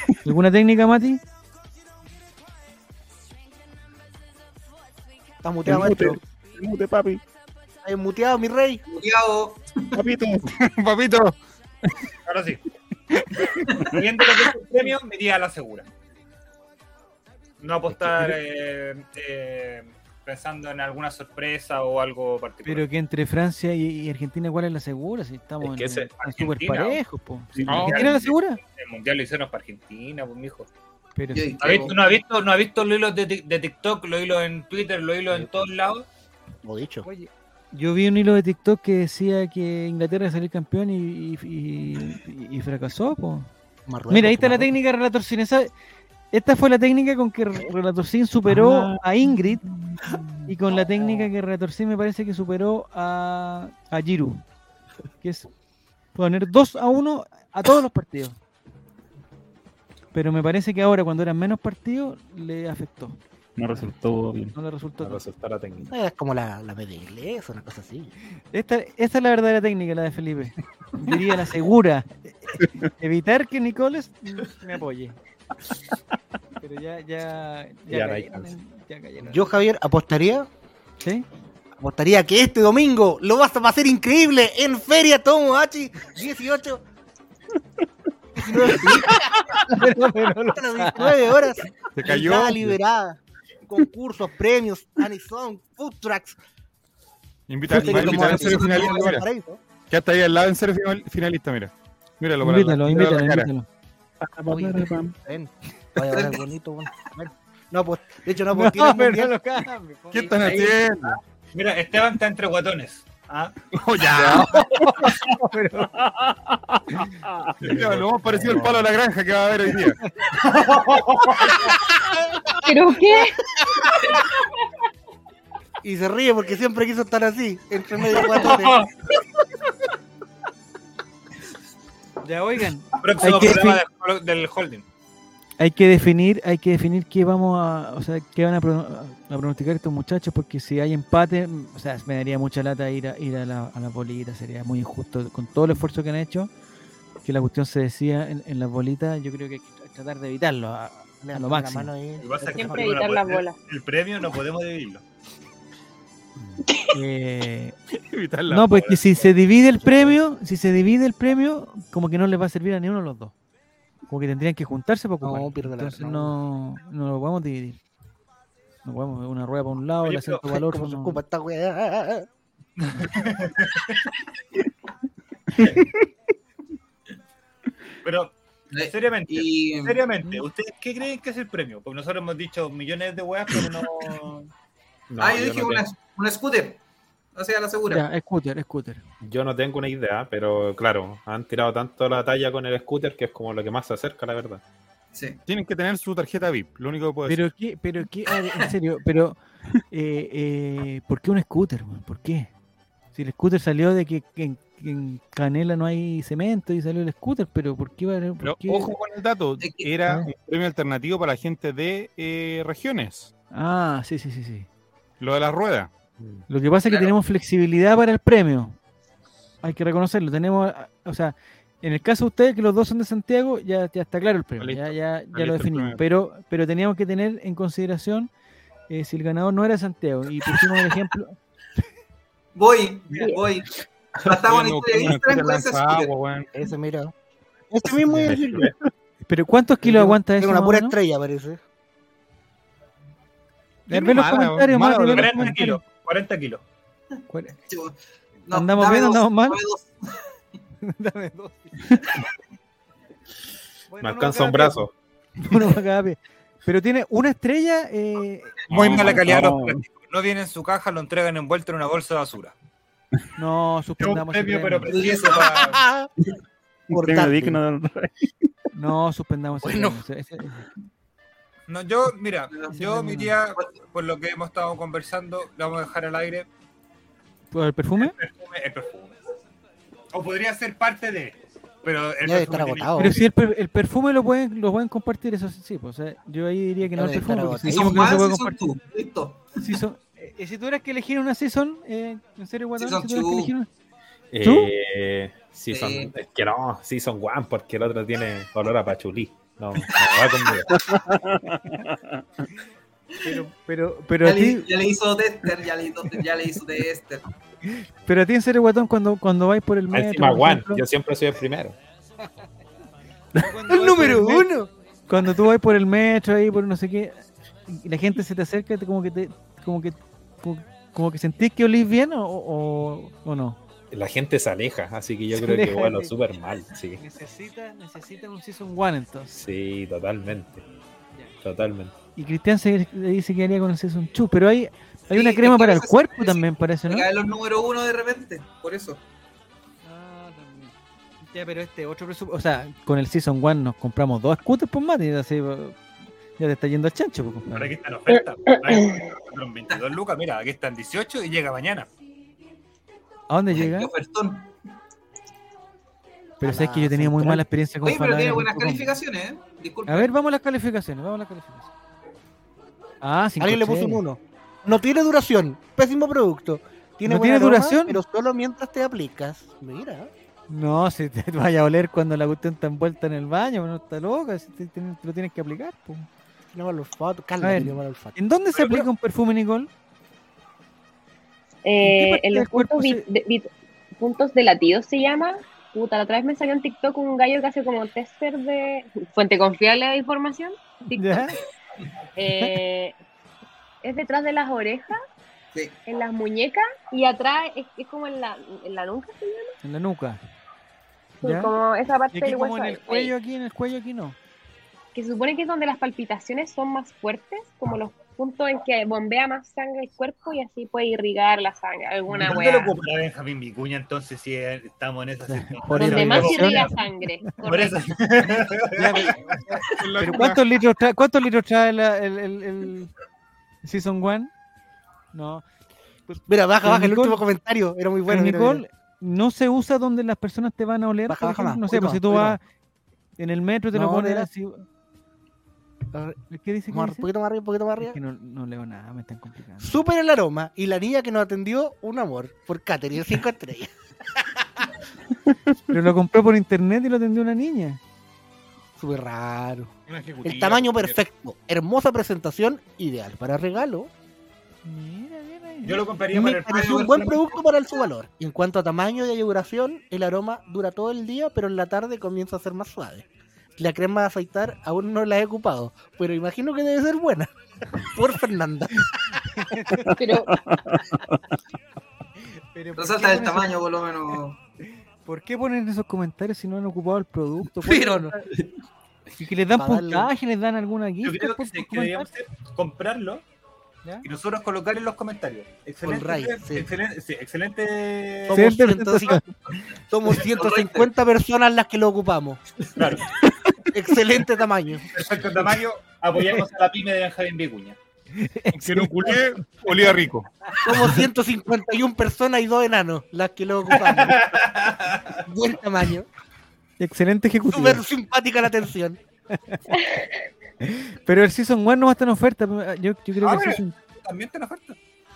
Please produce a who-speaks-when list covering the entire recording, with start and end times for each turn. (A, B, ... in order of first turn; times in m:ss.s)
0:00.2-0:01.2 A
0:05.4-0:06.2 B
0:05.6-0:07.2 C
0:07.8-0:08.8 B
0:08.9-0:10.0 D
0:10.0-0:10.4 C
0:10.5-0:11.9 E
0:12.2-0:12.6 F
0:13.8-0:15.9 F
0:17.6-0:22.8 F
0:17.9-0:18.4 C
0:22.6-0:28.6 A
0:25.6-0:26.1 G
0:26.2-0:27.0 F
0:27.5-0:28.0 C
0:27.7-0:30.7 F
0:27.7-0:28.0 G
0:31.2-0:31.6 A
0:31.3-0:32.0 D
0:31.6-0:36.1 F
0:36.6-0:37.1 B
0:37.0-0:43.5 A
0:43.9-0:44.8 B
0:44.1-0:45.7 A
0:46.3-0:49.6 A
0:48.5-0:49.0 C
0:49.6-0:50.5 C
0:50.5-0:54.4 A
0:55.2-0:55.5 A
0:56.1-0:58.4 A
1:00.1-1:03.2 A
1:03.6-1:04.5 C
1:04.5-1:05.2 A
1:05.0-1:05.9 G
1:05.9-1:08.1 B
1:08.5-1:15.2 A
1:16.6-1:19.6 A
1:17.9-1:18.5 G
1:19.2-1:20.5 B
1:21.8-1:26.8 B
1:28.4-1:29.6 B
1:28.8-1:31.3 A
1:30.4-1:36.4 B
1:31.9-1:32.8 E
1:37.5-1:39.2 E
1:37.7-1:39.6 B
1:37.9-1:38.2 F
1:38.0-1:39.1 D
1:39.9-1:43.5 E
1:42.4-1:43.6 A
1:44.2-1:45.2 C
1:44.5-1:49.3 B
1:46.0-1:46.4 D
1:48.5-1:50.3 A
1:50.1-1:51.2 E
1:50.2-1:50.7 F
1:51.5-1:55.3 F
1:53.7-1:55.2 E
1:54.3-1:55.9 A
1:57.6-2:00.0 E
1:57.6-1:58.0 F
1:58.2-1:58.8 A
2:00.3-2:01.7 F
2:02.6-2:03.4 H
2:05.8-2:08.8 B
2:08.1-2:08.9 F
2:12.2-2:13.8 A
2:12.9-2:14.8 F
2:15.6-2:26.5 A
2:27.2-2:31.9 A
2:31.2-2:33.1 B
2:32.2-2:35.0 F
2:32.5-2:33.6 H
2:36.9-2:37.7 A
2:38.1-2:38.8 E
2:38.4-2:39.3 G
2:38.5-2:43.3 A
2:44.1-2:47.8 A
2:45.2-2:46.4 B
2:48.8-2:51.2 A
2:50.0-2:50.4 F
2:50.4-2:52.3 B
2:52.8-2:54.0 F
2:58.0-2:58.4 F
2:58.7-3:00.0 D
2:58.9-3:04.4 F
3:05.1-3:05.8 G
3:05.2-3:06.8 D
3:07.3-3:08.0 D
3:07.9-3:09.0 A
3:09.2-3:14.6 G
3:15.1-3:15.4 D
3:15.5-3:17.5 E
3:17.2-3:19.4 A
3:19.9-3:22.5 A
3:23.1-3:28.9 A
3:28.4-3:33.3 E
3:29.6-3:29.9 D
3:33.5-3:34.7 A
3:35.2-3:35.9 E
3:36.5-3:38.8 A
3:36.9-3:37.1 D
3:39.6-3:48.3 A
3:44.6-3:46.0 E
3:48.9-3:51.4 A
3:52.5-3:53.7 D
3:53.2-3:53.4 H
3:54.2-3:56.1 D
3:54.2-3:56.5 E
3:56.5-3:57.1 B
3:57.7-3:58.7 B
3:59.2-4:00.9 A
3:59.8-4:01.6 B
4:03.9-4:05.8 A
4:03.9-4:05.5 E
4:05.1-4:06.6 F
4:07.3-4:07.5 A
4:07.6-4:08.0 D
4:08.5-4:10.2 D
4:08.5-4:09.6 A
4:10.8-4:12.1 A
4:13.9-4:14.8 A
4:14.0-4:14.9 G
4:15.4-4:19.2 A
4:18.7-4:22.5 F
4:18.7-4:19.8 C
4:23.4-4:24.9 A
4:24.0-4:25.8 F
4:24.9-4:25.4 D
4:25.0-4:26.1 B
4:26.9-4:27.6 B
4:26.9-4:28.5 C
4:28.7-4:30.6 A
4:29.6-4:30.0 B
4:31.7-4:36.5 F
4:32.5-4:32.8 D
4:32.7-4:33.3 A
4:37.5-4:38.2 A
4:38.0-4:39.2 F
4:40.1-4:43.2 F
4:42.2-4:43.1 B
4:43.0-4:48.6 A
4:46.8-4:48.2 B
4:47.7-4:49.5 D
4:49.6-4:53.7 A
4:52.8-4:53.5 D
4:54.3-5:00.8 G
4:54.4-4:54.7 A
4:55.7-4:56.1 D
5:00.7-5:02.2 C
5:03.2-5:04.7 A
5:04.2-5:07.2 D
5:07.6-5:10.8 A
5:09.9-5:11.8 G
5:13.3-5:14.5 A
5:13.7-5:14.7 B
5:15.1-5:17.2 A
5:17.7-5:23.6 A
5:23.9-5:27.0 G
5:25.3-5:26.1 A
5:27.0-5:29.3 A
5:29.3-5:30.6 G
5:31.4-5:31.9 G
5:32.2-5:37.1 A
5:35.1-5:39.0 D
5:39.8-5:40.7 A
5:41.2-5:45.8 A
5:46.4-5:47.7 A
5:47.5-5:51.9 F
5:53.3-5:53.9 A
5:53.5-5:54.5 D
5:56.4-5:58.9 A
5:56.4-5:57.4 B
5:57.8-6:00.1 D
5:59.9-6:01.7 A
6:03.0-6:04.0 A
6:03.4-6:10.1 B
6:07.0-6:08.0 A
6:10.5-6:16.1 A
6:16.5-6:18.2 B
6:17.4-6:19.7 A
6:18.5-6:18.8 F
6:21.6-6:31.4 H
6:21.8-6:23.0 A
6:30.9-6:31.4 A
6:32.2-6:32.9 H
6:33.8-6:35.0 H
6:35.5-6:35.8 D
6:35.9-6:39.5 H
6:39.6-6:40.2 A
6:41.2-6:43.1 H
6:41.2-6:41.5 A
6:42.1-6:44.2 A
6:44.9-6:52.7 H
6:52.1-6:56.7 F
6:55.3-6:57.3 A
6:55.7-6:57.9 H
6:57.4-6:59.2 F
6:58.7-7:02.9 A
6:59.6-7:00.4 E
7:03.6-7:04.3 A
7:05.1-7:05.4 A
7:06.1-7:07.2 A
7:06.3-7:08.6 B
7:08.1-7:12.4 A
7:11.1-7:12.4 B
7:13.2-7:14.6 A
7:13.7-7:14.3 B
7:16.2-7:17.1 A
7:16.7-7:18.0 B
7:17.8-7:19.8 A
7:19.6-7:24.7 B
7:25.7-7:27.8 A
7:28.8-7:29.7 B
7:29.9-7:31.0 F
7:30.2-7:33.9 B
7:34.6-7:35.8 A
7:35.6-7:37.2 F
7:36.1-7:43.0 B
7:36.5-7:37.1 D
7:43.6-7:49.2 B
7:49.3-7:49.9 A
7:50.0-7:50.4 H
7:50.3-7:51.0 C
7:52.5-7:53.6 A
7:52.7-7:54.4 D
7:55.0-7:58.3 A
7:57.6-7:58.2 B
7:59.2-8:02.1 A
7:59.5-8:00.1 B
8:01.0-8:03.2 F
8:04.0-8:08.4 F
8:05.8-8:06.7 B
8:08.2-8:09.2 B
8:08.3-8:09.2 A
8:09.9-8:12.4 B
8:10.2-8:10.9 D
8:12.7-8:13.2 F
8:13.7-8:14.9 B
8:14.9-8:17.8 F
8:18.1-8:19.9 A
8:18.5-8:20.3 E
8:20.6-8:24.4 B
8:23.7-8:25.2 F
8:25.1-8:26.1 B
8:26.8-8:27.8 A
8:27.4-8:29.0 B
8:29.3-8:29.6 A
8:29.7-8:30.1 H
8:30.6-8:33.7 A
8:33.2-8:34.8 F